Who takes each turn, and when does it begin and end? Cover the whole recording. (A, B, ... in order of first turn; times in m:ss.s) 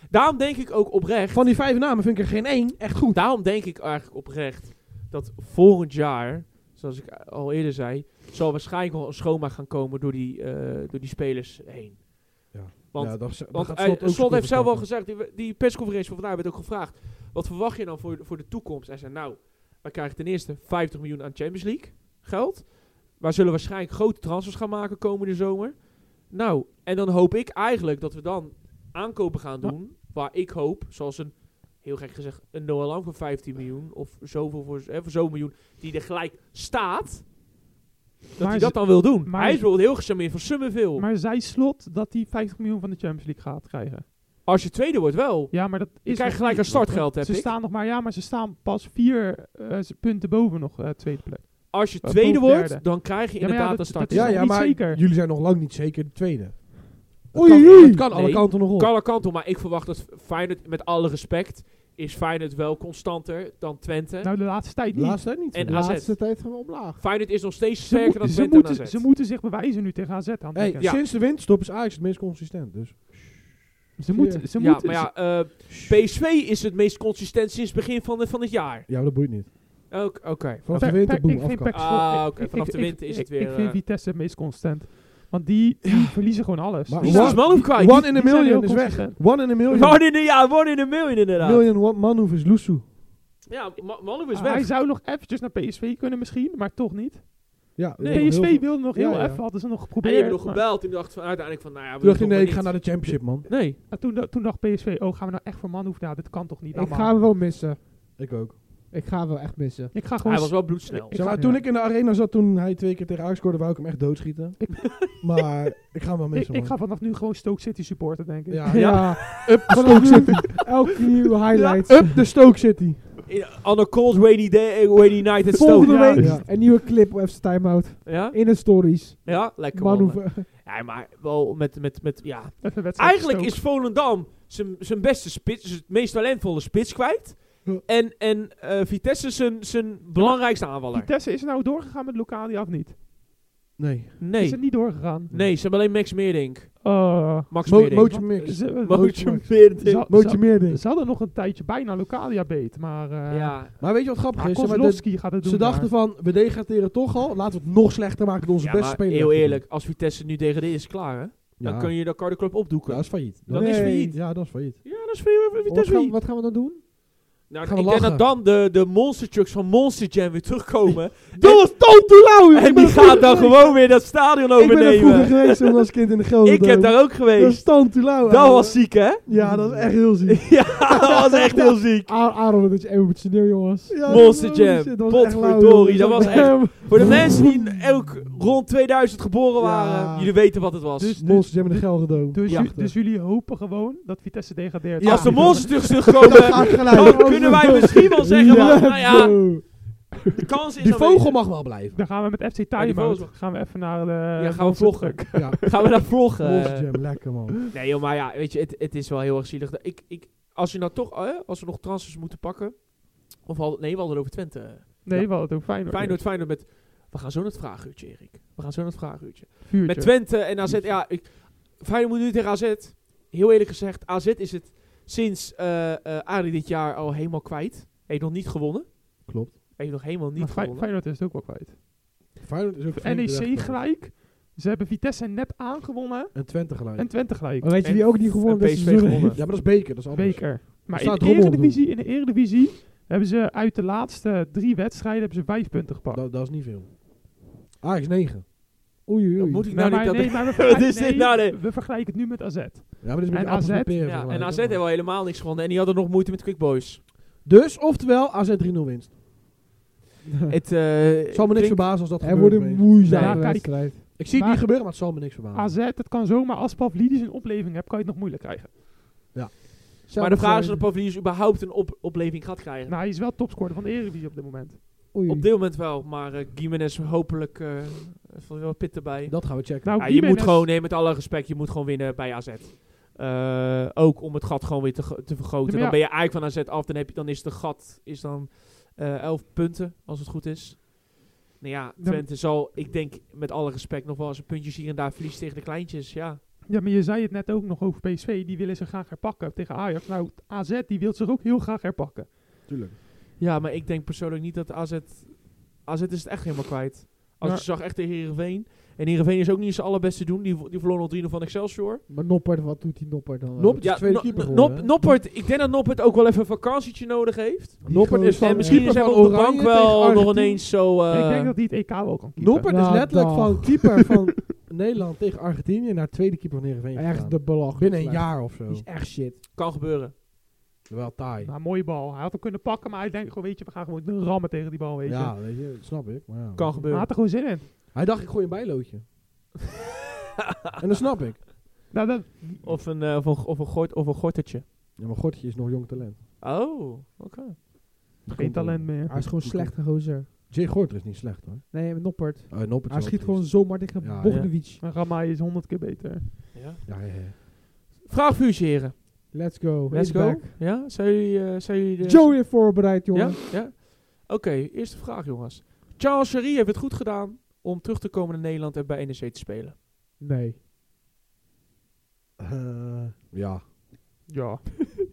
0:00.1-0:01.5 A
0:01.3-0:03.2 B
0:03.1-0:37.3 A
0:12.5-0:14.9 B
0:38.4-0:41.1 A
0:38.4-0:39.7 C
0:41.0-0:44.1 C
0:44.4-0:47.5 A
0:45.5-0:55.0 C
0:51.7-0:54.4 A
0:54.1-0:58.9 B
0:57.3-0:58.0 D
0:57.4-1:04.3 A
1:04.2-1:05.3 C
1:04.9-1:05.8 B
1:05.5-1:06.4 A
1:05.6-1:07.0 D
1:06.9-1:09.1 A
1:07.9-1:10.9 C
1:10.5-1:13.6 B
1:14.0-1:15.3 C
1:14.1-1:14.4 D
1:14.5-1:18.9 A
1:15.7-1:16.0 B
1:18.9-1:19.9 B
1:19.9-1:21.0 A
1:20.6-1:21.8 B
1:20.7-1:29.2 C
1:21.7-1:23.8 A
1:26.8-1:30.0 B
1:27.0-1:28.1 A
1:29.7-1:31.7 A
1:31.4-1:32.9 B
1:33.5-1:34.7 A
1:34.3-1:37.3 C
1:37.8-1:39.4 B
1:38.0-1:38.6 A
1:38.0-1:40.6 C
1:40.0-1:43.8 A
1:42.0-1:43.5 B
1:43.8-1:47.1 C
1:46.7-1:48.1 D
1:48.2-1:48.6 B
1:48.9-1:49.9 D
1:49.9-1:51.4 C
1:50.2-1:51.3 A
1:51.1-1:56.8 B
1:51.3-1:51.6 D
1:54.6-1:54.9 C
1:56.3-1:59.0 C
1:58.5-2:00.6 B
1:58.7-2:02.1 D
1:58.7-2:00.1 A
2:01.5-2:02.0 A
2:01.8-2:03.1 B
2:03.3-2:06.5 A
2:05.6-2:10.5 D
2:05.7-2:06.4 C
2:06.1-2:06.5 B
2:08.0-2:21.1 A
2:12.6-2:13.6 C
2:20.2-2:23.0 C
2:23.8-2:24.2 B
2:24.2-2:30.3 A
2:24.4-2:25.3 C
2:26.8-2:35.9 C
2:27.6-2:30.8 B
2:33.3-2:33.8 A
2:33.8-2:39.6 B
2:38.6-2:46.2 A
2:41.6-2:44.8 B
2:43.5-2:44.2 D
2:45.6-2:46.9 D
2:47.5-2:55.9 A
2:47.6-2:48.3 B
2:51.4-2:53.3 B
2:52.8-2:53.8 D
2:54.5-3:00.8 B
2:56.4-2:59.5 A
2:59.2-3:00.0 D
3:00.2-3:02.1 A
3:02.0-3:04.0 D
3:03.9-3:07.7 B
3:04.0-3:11.2 A
3:05.9-3:07.3 D
3:09.6-3:10.6 B
3:11.0-3:16.1 C
3:11.2-3:12.9 B
3:12.4-3:12.7 A
3:15.0-3:19.4 B
3:15.0-3:19.8 A
3:16.8-3:19.8 D
3:20.4-3:21.4 A
3:20.8-3:22.0 B
3:21.9-3:25.8 C
3:22.7-3:23.5 A
3:24.4-3:50.9 A
3:25.3-3:27.5 B
3:35.0-3:36.3 C
3:39.7-3:40.3 C
3:40.6-3:40.9 B
3:49.2-3:49.5 B
3:50.4-3:51.7 C
3:52.3-3:53.8 B
3:52.9-3:57.7 C
3:56.3-3:57.3 B
3:57.6-3:59.4 D
3:57.8-3:59.4 A
3:59.3-4:01.8 B
4:00.1-4:06.2 C
4:06.1-4:08.5 B
4:09.0-4:09.7 D
4:09.4-4:11.6 A
4:09.7-4:14.0 C
4:13.0-4:14.8 B
4:14.0-4:17.0 A
4:17.4-4:19.2 B
4:20.2-4:20.6 D
4:20.5-4:21.9 A
4:21.3-4:25.8 B
4:22.2-4:24.0 D
4:23.0-4:28.7 C
4:23.0-4:23.4 A
4:29.3-4:29.6 B
4:30.1-4:30.9 D
4:30.2-4:33.0 A
4:32.9-4:34.8 C
4:35.1-4:35.5 D
4:35.2-4:56.4 A
4:39.3-4:40.0 B
4:39.8-4:40.7 C
4:45.6-4:46.0 C
4:52.0-4:52.3 C
4:56.7-5:02.3 C
5:02.7-5:03.0 B
5:03.4-5:12.0 A
5:12.1-5:14.0 D
5:13.6-5:14.9 B
5:13.8-5:21.5 A
5:17.8-5:18.9 D
5:17.8-5:20.6 B
5:21.1-5:22.7 C
5:22.4-5:28.8 B
5:22.7-5:23.8 D
5:26.9-5:29.4 D
5:29.5-5:30.1 A
5:30.9-5:31.5 B
5:31.4-5:35.4 C
5:35.0-5:37.4 B
5:36.5-5:37.1 A
5:36.9-5:37.6 C
5:37.9-5:39.0 B
5:40.8-5:41.5 B
5:41.9-5:42.7 C
5:42.6-5:44.6 A
5:45.0-5:46.2 B
5:46.4-5:47.6 A
5:48.2-5:54.4 B
5:48.4-5:49.2 C
5:49.1-5:50.3 D
5:51.7-5:54.8 D
5:54.2-5:54.5 A
5:54.5-5:56.3 C
5:56.5-5:56.8 A
5:56.8-5:57.3 B
5:58.0-6:09.8 A
5:59.3-6:00.6 D
6:02.0-6:03.4 D
6:10.2-6:10.6 D
6:12.4-6:13.6 B
6:14.3-6:14.6 C